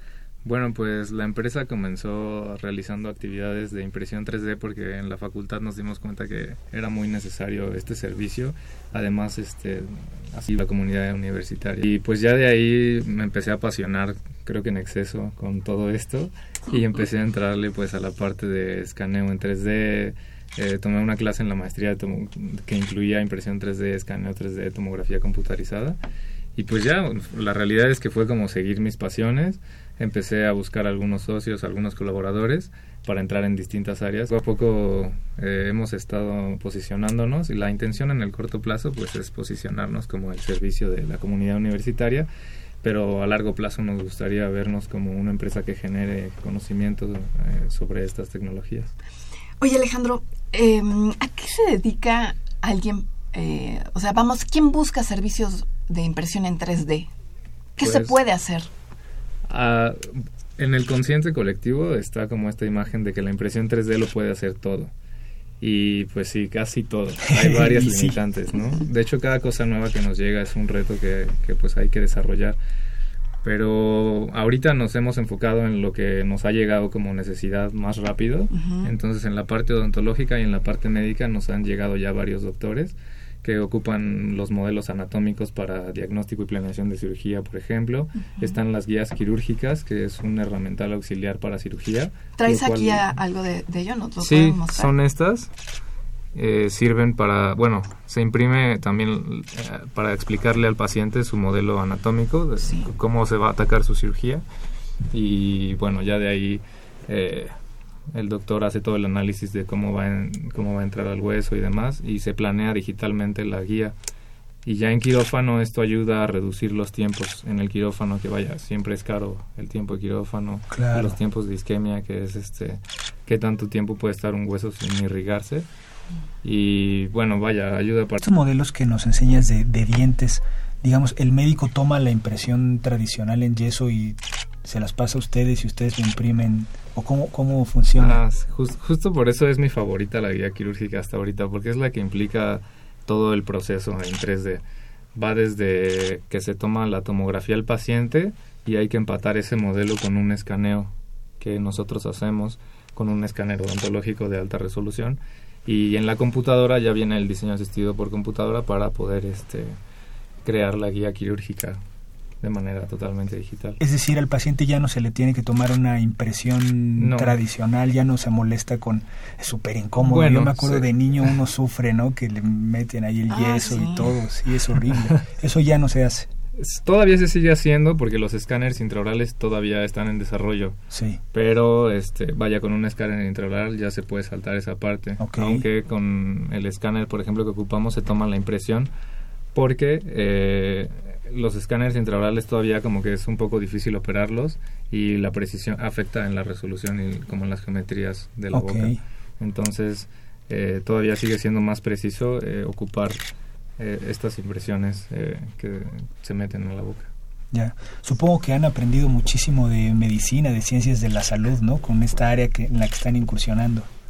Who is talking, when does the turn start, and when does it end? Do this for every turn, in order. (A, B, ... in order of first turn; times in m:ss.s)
0:00.4-0:26.0 A
0:26.6-0:42.3 A
0:42.8-0:48.9 A
0:49.6-0:57.1 B
0:57.8-0:58.7 B
0:57.8-0:58.2 A
0:59.5-1:04.9 A
1:05.6-1:12.6 A
1:07.3-1:08.2 C
1:13.4-1:33.0 A
1:18.5-1:18.9 B
1:28.2-1:28.6 B
1:32.4-1:34.9 B
1:34.2-1:35.5 A
1:36.3-1:44.4 A
1:42.6-1:42.9 B
1:45.1-1:47.5 A
1:48.1-1:53.9 A
1:54.6-2:05.6 A
2:00.7-2:01.2 C
2:06.4-2:08.2 A
2:08.2-2:18.2 C
2:18.0-2:24.6 A
2:25.1-2:39.8 A
2:40.4-2:41.8 A
2:42.4-2:43.8 A
2:43.8-2:56.3 C
2:47.0-2:47.4 A
2:50.0-2:51.3 A
2:53.3-2:54.2 B
2:56.6-3:00.8 A
3:00.9-3:01.2 C
3:01.3-3:08.9 A
3:05.2-3:05.6 C
3:09.5-3:23.2 A
3:18.5-3:19.0 C
3:23.8-3:27.1 A
3:27.5-3:33.9 C